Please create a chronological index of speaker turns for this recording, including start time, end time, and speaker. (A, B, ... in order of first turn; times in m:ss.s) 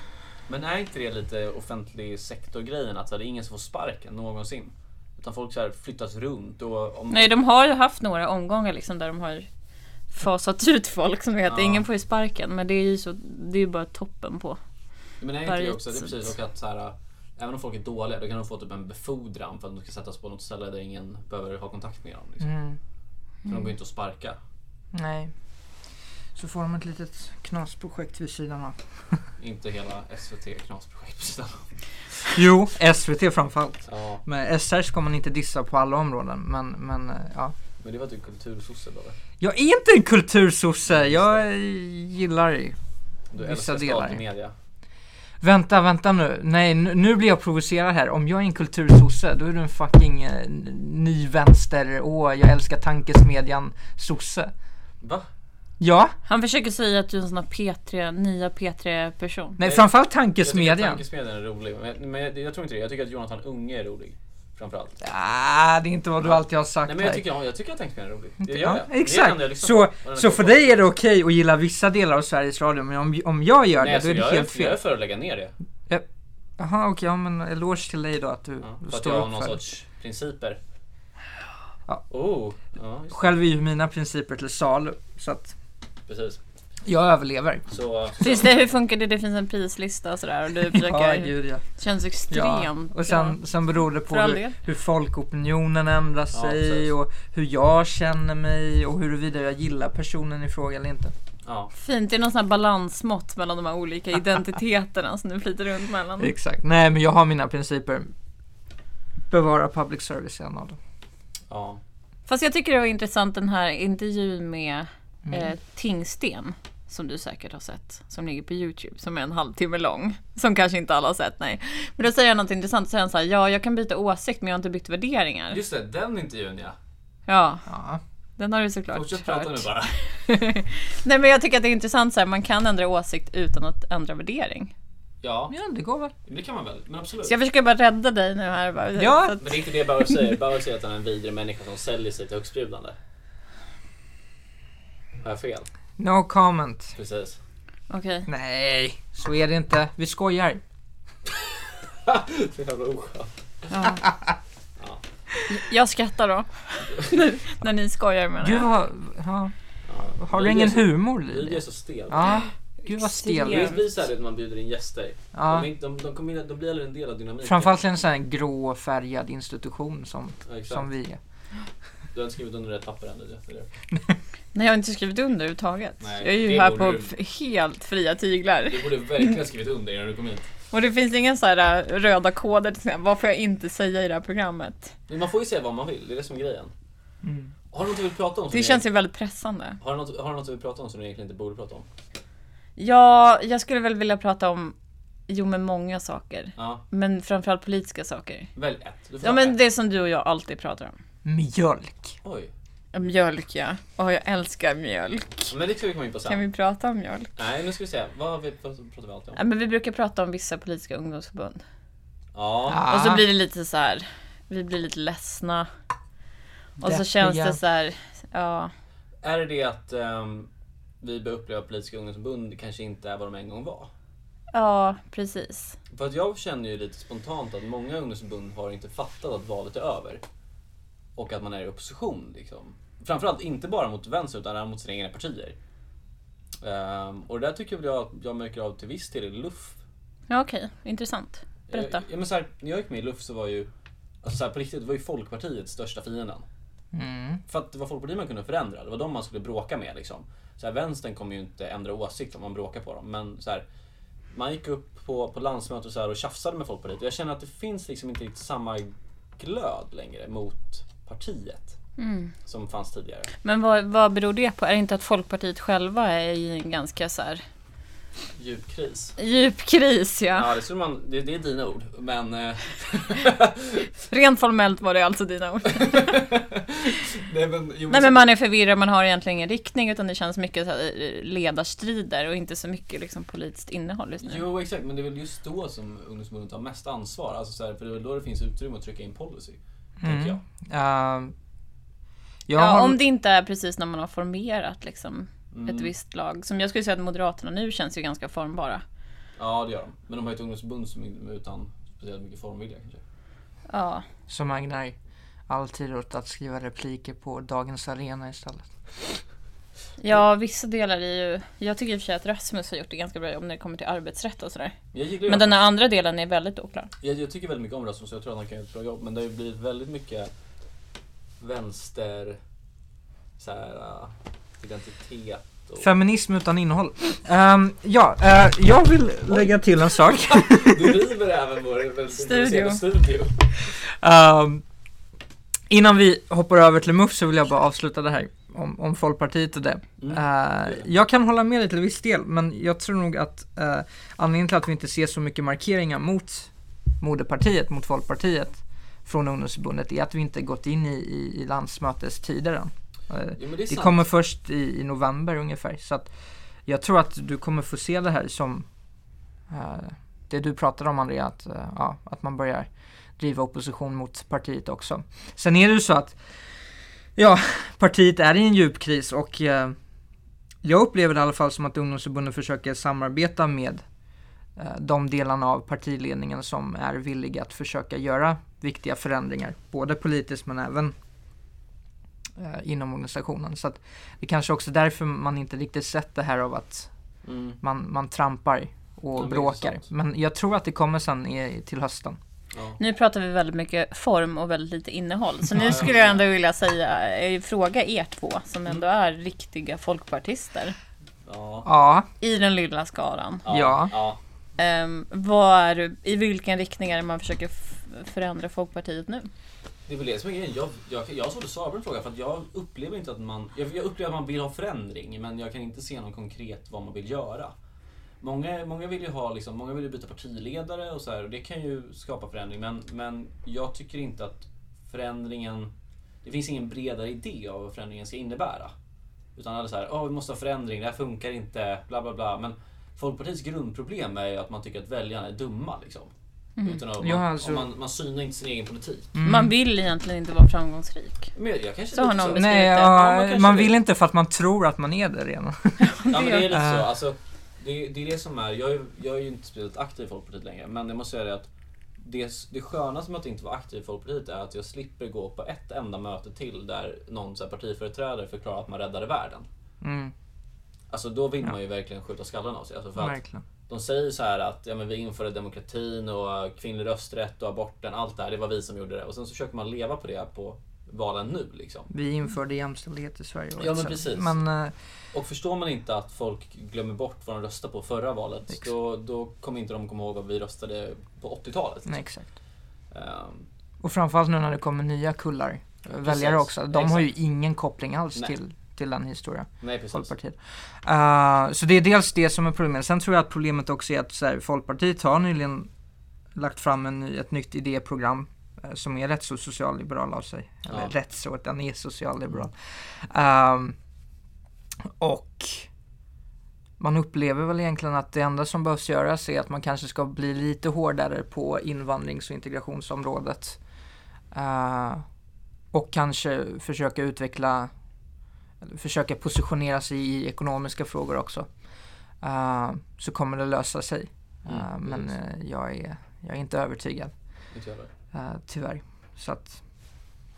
0:00.5-0:07.3 A
0:07.1-0:09.5 B
0:10.1-0:14.6 B
0:11.5-0:11.9 A
0:15.2-0:22.5 A
0:15.4-0:16.2 B
0:22.4-0:22.8 C
0:23.5-0:24.4 A
0:24.9-0:25.3 C
0:26.4-0:29.2 C
0:29.4-0:32.3 A
0:32.3-0:37.5 C
0:33.9-0:34.2 A
0:37.8-0:39.2 A
0:39.4-0:42.8 C
0:40.9-0:41.4 A
0:43.3-0:44.5 A
0:43.4-0:44.2 C
0:45.4-0:54.5 C
0:55.0-0:55.3 A
0:55.8-0:56.1 C
0:56.3-0:59.6 B
0:59.6-1:01.0 C
0:59.6-1:05.0 A
1:05.0-1:07.2 C
1:06.2-1:10.9 A
1:08.4-1:14.8 C
1:13.8-1:15.5 A
1:16.6-1:19.6 C
1:18.6-1:20.6 A
1:22.1-1:23.3 A
1:23.1-1:25.5 C
1:26.1-1:26.4 A
1:26.9-1:27.7 C
1:27.7-1:28.7 A
1:28.2-1:33.4 B
1:30.7-1:31.6 C
1:32.3-1:41.1 C
1:34.0-1:34.6 B
1:36.3-1:36.9 A
1:41.4-1:41.7 A
1:41.7-1:46.3 B
1:46.2-1:48.1 C
1:49.3-1:50.8 C
1:51.5-1:51.8 A
1:52.3-2:05.6 B
2:05.5-2:06.8 A
2:07.3-2:07.7 B
2:07.7-2:08.0 C
2:08.4-2:14.7 B
2:08.9-2:10.0 A
2:15.2-2:15.6 A
2:15.5-2:16.1 C
2:16.2-2:17.4 A
2:17.2-2:19.6 B
2:19.0-2:19.4 C
2:19.4-2:23.0 A
2:25.2-2:25.7 A
2:26.0-2:27.0 C
2:27.0-2:27.4 A
2:27.9-2:28.3 B
2:28.3-2:30.6 C
2:32.0-2:33.3 A
2:33.7-2:34.0 B
2:35.5-2:38.7 B
2:38.4-2:39.5 C
2:39.9-2:42.4 A
2:40.2-2:43.8 C
2:42.3-2:43.8 B
2:43.4-2:48.0 A
2:45.3-2:45.7 C
2:47.4-2:51.2 C
2:50.5-2:50.9 A
2:52.1-2:53.7 A
2:54.5-2:59.4 B
2:56.0-2:57.1 A
2:58.7-3:00.5 A
3:00.7-3:04.9 B
3:05.1-3:06.7 A
3:07.2-3:07.5 C
3:07.7-3:08.8 A
3:08.5-3:09.8 B
3:09.8-3:11.9 A
3:12.8-3:14.8 B
3:15.3-3:18.5 B
3:16.6-3:16.8 A
3:18.6-3:19.6 A
3:19.2-3:21.0 B
3:21.2-3:22.2 C
3:22.2-3:22.5 A
3:22.9-3:25.5 B
3:25.5-3:26.4 A
3:26.3-3:27.3 B
3:27.4-3:29.4 A
3:29.4-3:31.6 B
3:32.3-3:32.9 A
3:32.7-3:33.2 C
3:32.9-3:35.7 B
3:36.8-3:38.7 B
3:36.8-3:37.6 C
3:39.2-3:40.5 A
3:41.0-3:43.9 A
3:44.5-3:45.8 B
3:45.9-3:50.2 A
3:51.2-3:55.6 A
3:56.6-3:59.8 A
4:00.3-4:02.0 B
4:01.7-4:03.7 A
4:04.2-4:06.5 A
4:06.9-4:07.4 C
4:07.5-4:13.6 A
4:14.3-4:21.8 A
4:22.0-4:22.3 B
4:22.4-4:23.3 A
4:23.4-4:27.4 B
4:28.4-4:29.2 A
4:29.2-4:30.5 B
4:30.3-4:33.9 A
4:34.1-4:36.2 B
4:35.7-4:38.3 A
4:37.9-4:44.4 B
4:44.2-4:50.4 A
4:50.0-4:51.3 C
4:52.5-4:53.0 C
4:52.6-4:58.8 B
4:55.5-4:55.9 A
4:59.4-5:03.0 A
5:03.7-5:04.0 B
5:04.3-5:05.0 C
5:05.5-5:08.7 C
5:10.0-5:14.8 B
5:14.9-5:15.6 A
5:15.3-5:16.9 B
5:17.0-5:20.3 A
5:21.4-5:22.4 A
5:23.4-5:25.9 A
5:25.8-5:31.0 C
5:29.3-5:33.5 A
5:32.1-5:32.8 B
5:33.7-5:34.6 C
5:35.7-5:46.5 C
5:40.0-5:40.9 A
5:47.0-5:56.1 C
5:53.4-5:54.1 A
5:56.7-5:58.7 C
5:59.5-6:06.2 C
6:07.2-6:09.8 C
6:10.6-6:13.8 C
6:14.6-6:20.9 C
6:22.4-6:26.9 C
6:27.2-6:27.6 A
6:27.6-6:32.2 C
6:29.2-6:29.9 A
6:32.5-6:32.8 A
6:32.8-6:40.8 B
6:35.6-6:36.2 A
6:41.3-6:41.7 A
6:41.6-6:42.1 C
6:42.2-6:43.5 B
6:43.4-6:44.2 A
6:43.5-6:43.9 C
6:44.6-6:49.3 B
6:49.9-6:57.5 A
6:58.2-7:05.7 A
7:06.2-7:08.7 A
7:09.4-7:16.1 A
7:16.6-7:16.8 B
7:16.6-7:19.2 A
7:17.0-7:17.7 C
7:19.1-7:19.5 C
7:19.2-7:21.3 B
7:21.4-7:23.7 A
7:21.9-7:22.9 B
7:22.3-7:25.9 C
7:25.8-7:26.5 B
7:26.1-7:39.5 A
7:26.5-7:26.9 C
7:39.8-7:40.1 C
7:40.9-7:51.9 A
7:43.0-7:43.4 C
7:51.9-7:54.7 C
7:53.6-7:54.4 A
7:55.1-8:02.0 A
8:01.9-8:02.3 C
8:02.9-8:03.5 A
8:03.8-8:15.7 C
8:06.0-8:07.1 A
8:09.6-8:10.1 A
8:16.4-8:23.8 C
8:20.7-8:20.9 A
8:24.8-8:25.7 C
8:26.8-8:33.6 C
8:34.3-8:35.0 C
8:35.7-8:37.7 C
8:38.6-8:41.5 C
8:42.2-8:47.1 C
8:44.5-8:45.1 A
8:47.5-8:47.9 A
8:48.1-8:49.6 C